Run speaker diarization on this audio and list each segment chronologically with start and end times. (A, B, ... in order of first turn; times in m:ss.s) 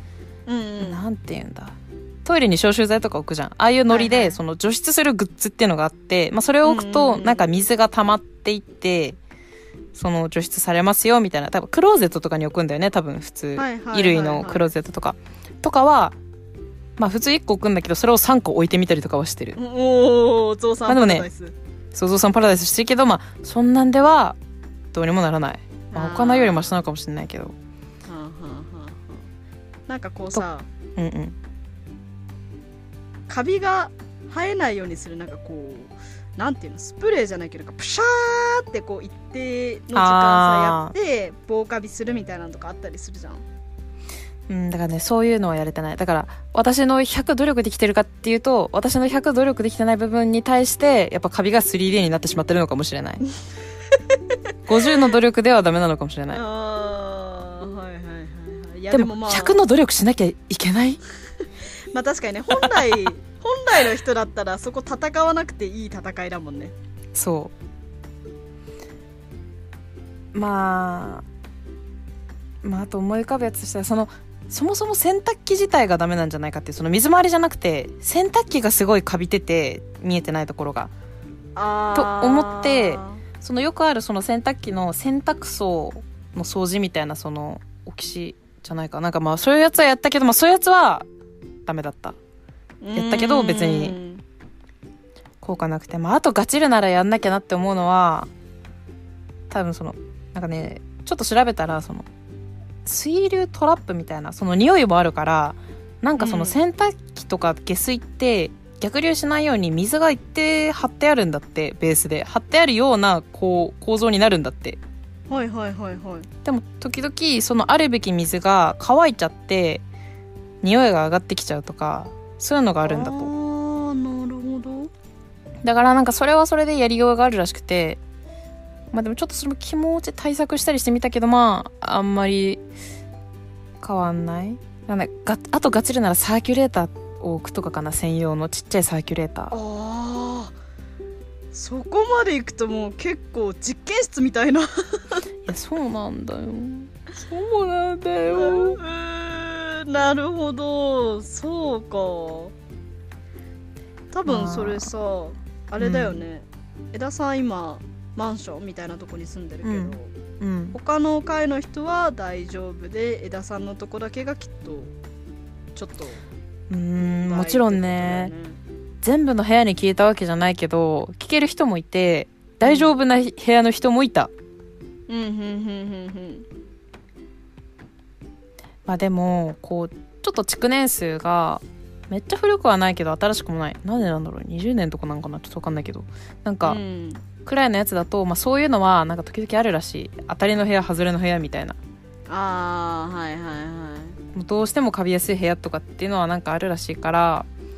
0:00.5-0:01.0 A
0:00.8-0:09.2 B
0:03.9-0:04.4 A
0:06.6-0:07.4 A
0:09.9-0:16.2 B
0:13.6-0:14.7 A
0:17.0-0:19.6 B
0:19.6-0:21.5 A
0:20.9-0:21.2 B
0:21.9-0:24.4 B
0:24.9-0:27.5 B
0:25.9-0:26.8 A
0:28.1-0:29.3 A
0:29.9-0:30.6 A
0:31.0-0:31.4 B
0:33.3-0:43.4 A
0:39.9-0:40.9 B
0:44.5-0:53.2 B
0:54.7-0:56.4 B
0:56.3-0:59.6 A
0:58.9-1:01.0 B
1:01.9-1:06.7 A
1:07.1-1:07.5 B
1:10.3-1:11.2 B
1:12.6-1:20.9 B
1:21.6-1:23.2 A
1:21.9-1:31.1 B
1:31.6-1:32.2 B
1:32.8-1:34.2 A
1:32.9-1:34.0 B
1:35.4-1:38.3 B
1:39.5-1:42.1 B
1:42.8-1:54.8 B
1:46.2-1:46.6 A
1:55.3-1:56.3 A
1:56.4-1:59.8 B
2:00.6-2:03.3 B
2:02.8-2:04.9 A
2:05.6-2:08.0 B
2:08.9-2:12.6 B
2:13.8-2:19.6 B
2:19.5-2:20.5 A
2:21.5-2:25.2 A
2:25.4-2:28.8 B
2:28.3-2:32.5 A
2:34.1-2:40.1 A
2:34.3-2:34.9 B
2:35.8-2:36.2 B
2:39.6-2:40.8 B
2:40.7-2:44.9 A
2:45.7-2:46.2 A
2:46.7-2:48.3 B
2:47.0-2:48.6 A
2:49.0-2:54.3 B
2:52.6-2:52.9 A
2:55.1-2:56.5 A
2:58.8-3:06.8 B
3:06.6-3:07.2 A
3:07.4-3:11.8 B
3:12.3-3:14.2 A
3:14.3-3:17.5 B